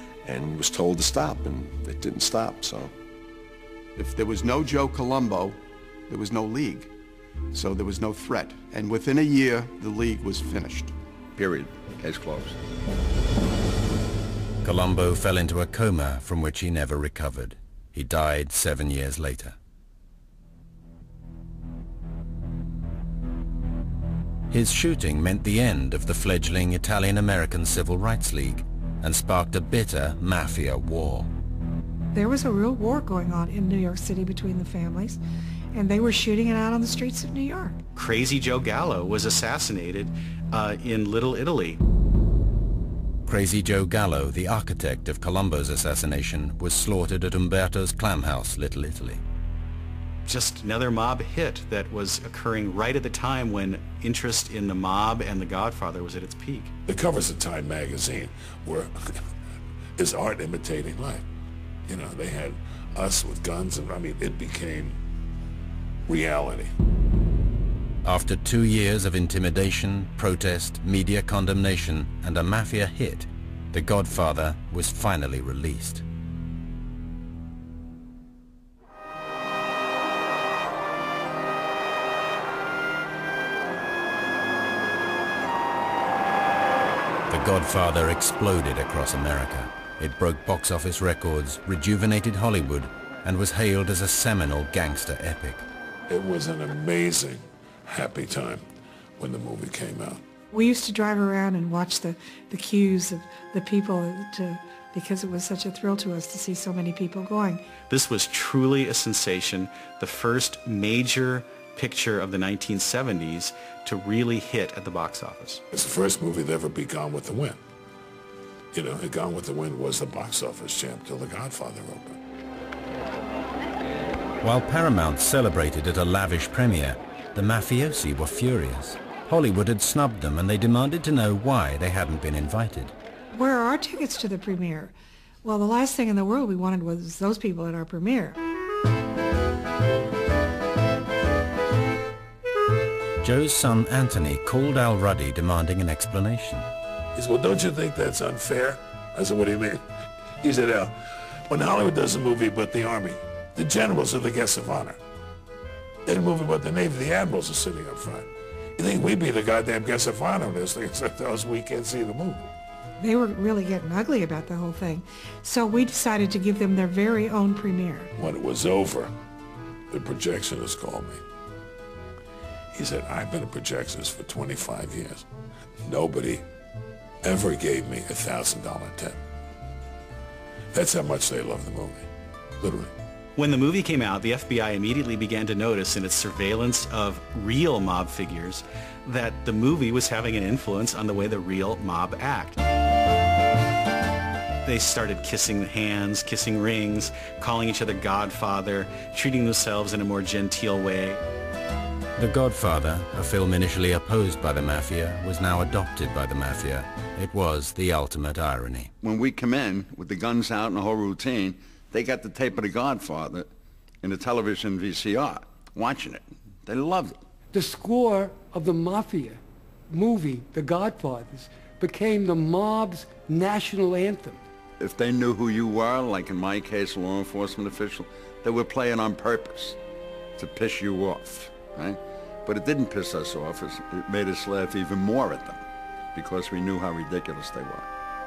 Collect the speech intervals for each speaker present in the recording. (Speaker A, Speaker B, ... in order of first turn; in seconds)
Speaker A: 0.2-2.9
Speaker B: 4.0-6.9, 7.5-10.9
Speaker C: 11.4-12.6, 209.0-213.5, 214.0-217.2, 224.8-229.8, 230.4-235.6, 236.1-237.8
Speaker D: 14.6-19.6, 24.5-31.3, 43.2-49.2, 68.0-76.0, 87.3-95.6, 124.4-132.9, 143.2-146.7, 202.2-208.9
Speaker E: 32.1-35.2, 35.7-37.8, 100.5-107.6, 133.3-138.4, 163.0-168.1
Speaker F: 38.0-41.8, 50.2-56.7, 107.9-115.6, 183.4-192.6, 194.6-201.2
Speaker G: 56.9-59.1, 60.0-61.2, 61.9-65.0, 66.1-66.7, 96.1-98.6, 99.2-100.2, 115.7-117.6, 118.7-122.2, 147.1-149.8, 150.4-150.9, 151.5-155.0, 156.1-162.5, 168.2-169.1, 169.9-171.2, 172.7-175.2, 175.8-176.4, 177.2-179.2, 180.7-182.1, 182.6-182.9
Speaker H: 217.5-224.4